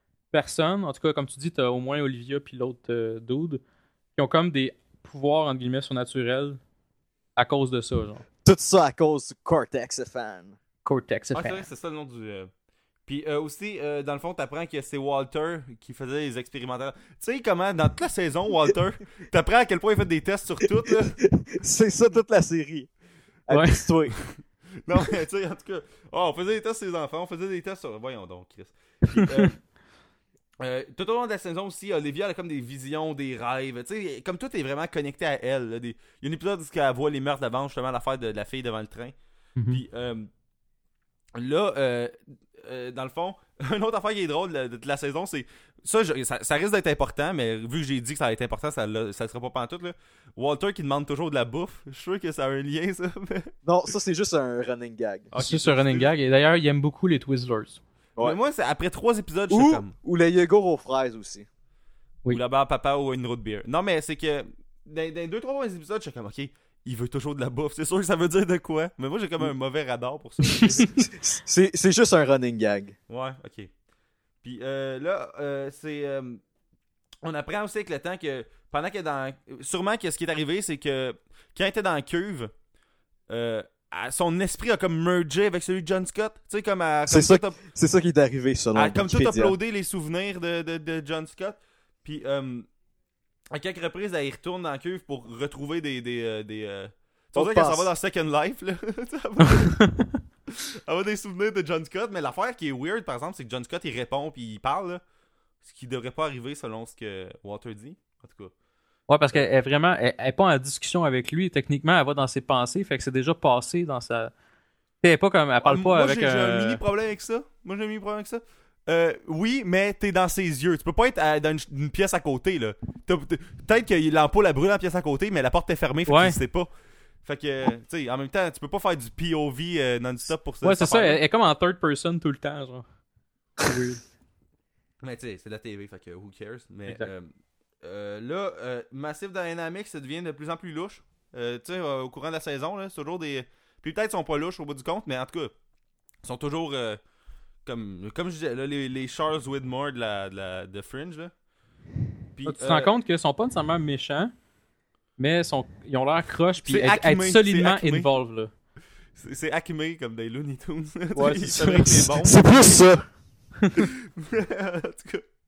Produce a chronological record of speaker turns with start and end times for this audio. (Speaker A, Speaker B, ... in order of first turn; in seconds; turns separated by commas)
Speaker A: 0.3-3.6, Speaker A: 4.2-6.6, Speaker A: 7.4-8.2, Speaker B: 8.4-10.6, Speaker A: 10.8-11.7, Speaker C: 11.3-12.5, Speaker C: 13.1-21.2, Speaker B: 20.6-22.9, Speaker B: 23.5-24.2, Speaker A: 23.5-23.9, Speaker C: 24.1-29.6, Speaker C: 30.6-39.1, Speaker C: 39.7-40.3, Speaker C: 41.4-53.5, Speaker B: 53.6-55.3, Speaker C: 55.3-56.1, Speaker A: 55.4-57.8, Speaker C: 58.2-59.9, Speaker B: 59.5-61.5, Speaker C: 62.3-71.1, Speaker A: 70.6-70.9, Speaker B: 70.7-73.0, Speaker C: 73.1-73.7, Speaker C: 74.4-76.4, Speaker C: 77.2-82.5, Speaker C: 83.3-87.6, Speaker B: 87.1-89.5, Speaker C: 88.8-92.7, Speaker C: 93.5-99.9, Speaker B: 97.3-97.9, Speaker A: 99.7-100.1, Speaker C: 100.6-105.0, Speaker C: 105.6-108.5, Speaker A: 109.1-114.3, Speaker A: 115.0-116.8, Speaker C: 115.6-126.7, Speaker A: 126.1-126.4, Speaker C: 127.2-131.2, Speaker A: 130.6-132.8, Speaker A: 133.6-134.0, Speaker C: 135.0-137.3, Speaker C: 137.8-145.5, Speaker C: 146.2-147.0, Speaker C: 147.7-151.3, Speaker C: 152.4-152.9, Speaker A: 152.4-154.3, Speaker A: 155.2-158.5, Speaker C: 156.7-158.1, Speaker C: 159.2-162.9, Speaker A: 161.2-162.3, Speaker B: 162.2-163.1, Speaker C: 163.8-165.2